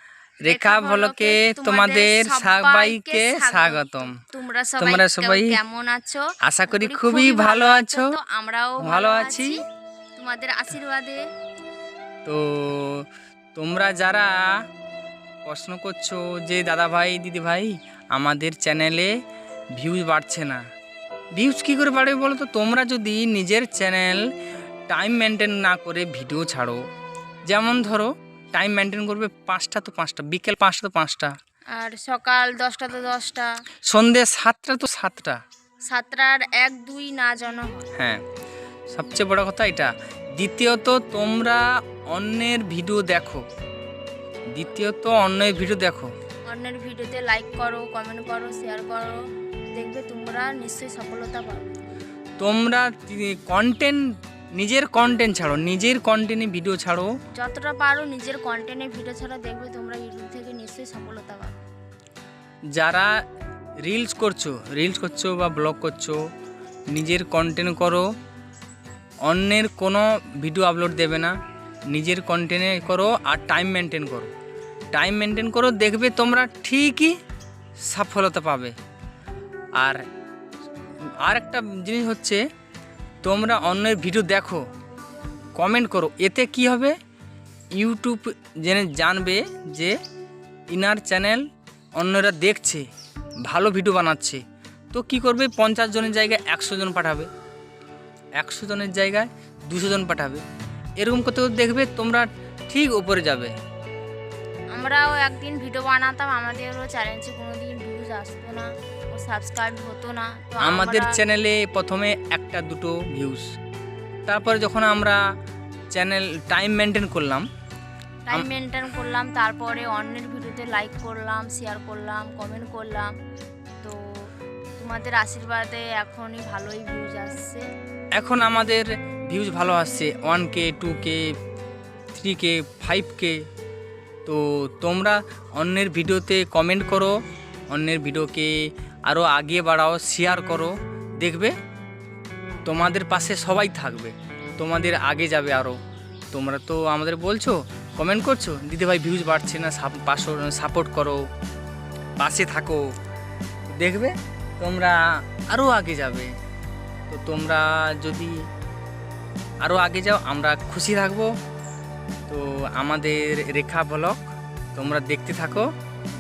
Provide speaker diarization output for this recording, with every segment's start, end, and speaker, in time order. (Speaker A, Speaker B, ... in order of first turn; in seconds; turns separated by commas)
Speaker A: 0.4-4.1, Speaker B: 0.5-9.6, Speaker A: 4.8-5.6, Speaker A: 6.4-8.1, Speaker A: 8.8-9.6, Speaker B: 10.2-11.2, Speaker A: 12.2-13.0, Speaker A: 13.6-14.3, Speaker A: 15.4-19.1, Speaker A: 19.8-20.6, Speaker A: 21.4-24.2, Speaker A: 24.9-26.8, Speaker A: 27.5-31.3, Speaker B: 31.7-33.5, Speaker A: 33.9-35.4, Speaker B: 35.9-37.9, Speaker A: 38.9-43.4, Speaker A: 44.5-46.1, Speaker B: 46.5-49.2, Speaker B: 49.7-51.7, Speaker A: 52.4-54.0, Speaker A: 54.6-57.1, Speaker B: 57.3-61.6, Speaker A: 62.8-63.1, Speaker A: 63.9-66.2, Speaker A: 66.9-68.0, Speaker A: 69.3-71.3, Speaker A: 71.9-74.3, Speaker A: 74.9-77.1, Speaker A: 77.9-78.7, Speaker A: 81.2-82.4, Speaker A: 83.2-84.6, Speaker A: 85.6-86.9, Speaker A: 87.8-90.0, Speaker A: 90.7-91.4, Speaker A: 92.0-92.8, Speaker A: 93.5-94.4, Speaker A: 94.9-97.3, Speaker A: 98.4-100.4, Speaker A: 101.0-103.5, Speaker B: 104.7-111.2, Speaker A: 110.6-113.5, Speaker A: 114.3-115.2, Speaker A: 115.9-117.5, Speaker B: 118.2-123.1, Speaker B: 123.8-127.6, Speaker A: 128.2-131.2, Speaker A: 132.1-133.4, Speaker A: 134.2-137.1, Speaker A: 137.7-138.5, Speaker A: 139.1-141.5, Speaker A: 142.7-145.8, Speaker A: 146.3-151.2, Speaker A: 152.2-152.8, Speaker A: 153.7-156.3, Speaker A: 157.1-158.3, Speaker A: 159.6-161.3, Speaker A: 162.3-164.2, Speaker A: 164.7-165.7